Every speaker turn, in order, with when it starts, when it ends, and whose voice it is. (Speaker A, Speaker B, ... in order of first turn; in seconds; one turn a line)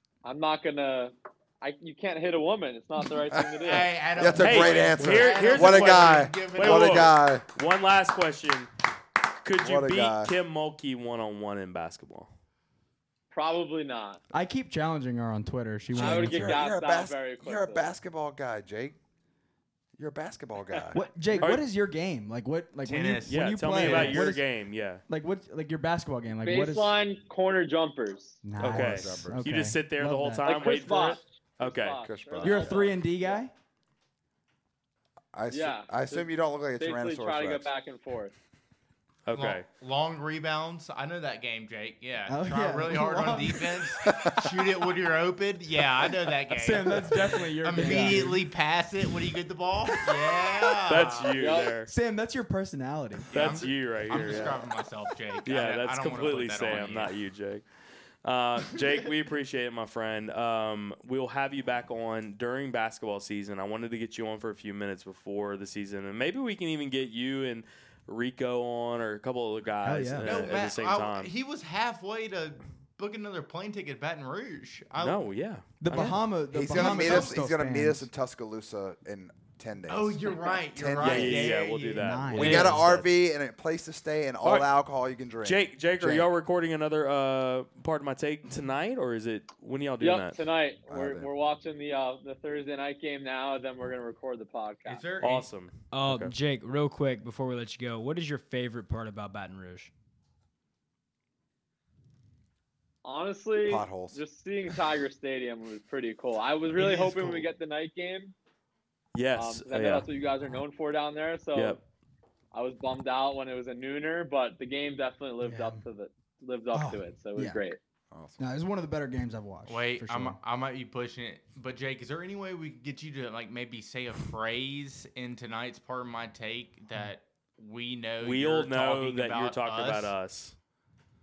Speaker A: 0.2-3.9
Speaker B: 3.6-7.1
Speaker C: 4.1-7.4
Speaker D: 4.4-8.7
Speaker D: 9.4-12.3
Speaker C: 9.6-10.3
Speaker A: 13.3-14.2
Speaker E: 14.3-16.6
Speaker C: 15.9-19.0
Speaker A: 15.9-17.9
Speaker C: 20.0-21.0
Speaker E: 20.9-24.4
Speaker D: 21.4-21.6
Speaker B: 22.8-24.4
Speaker D: 23.2-25.0
Speaker E: 25.1-27.0
Speaker A: 26.4-28.4
Speaker E: 28.4-30.9
Speaker D: 28.6-32.0
Speaker C: 28.6-29.6
Speaker A: 30.4-33.4
Speaker C: 32.0-32.9
Speaker E: 32.4-33.5
Speaker C: 35.3-37.7
Speaker A: 35.5-38.3
Speaker D: 39.2-39.6
Speaker B: 39.3-51.4
Speaker E: 42.3-44.0
Speaker E: 46.5-48.5
Speaker D: 50.8-51.9
Speaker A: 51.4-51.7
Speaker E: 51.8-53.3
Speaker B: 53.3-57.1
Speaker D: 53.3-54.6
Speaker D: 55.4-57.6
Speaker D: 58.2-71.3
Speaker E: 69.8-70.5
Speaker B: 70.2-75.2
Speaker D: 75.0-76.2
Speaker E: 75.8-78.1
Speaker C: 75.9-81.6
Speaker B: 75.9-77.4
Speaker B: 79.9-82.6
Speaker D: 81.0-83.1
Speaker E: 81.8-82.9
Speaker C: 82.3-86.3
Speaker D: 84.4-84.7
Speaker D: 85.4-90.4
Speaker A: 90.0-95.0
Speaker C: 90.9-91.3
Speaker B: 94.8-95.5
Speaker D: 95.2-96.3
Speaker F: 95.9-99.9
Speaker A: 103.0-108.3
Speaker C: 103.6-104.2
Speaker B: 106.8-107.4
Speaker D: 109.1-110.1
Speaker A: 109.3-111.8
Speaker D: 111.5-111.8
Speaker A: 112.5-117.8
Speaker E: 115.4-115.8
Speaker E: 116.7-117.6
Speaker C: 118.1-118.4
Speaker E: 118.4-120.4
Speaker B: 119.7-130.1
Speaker D: 128.2-130.5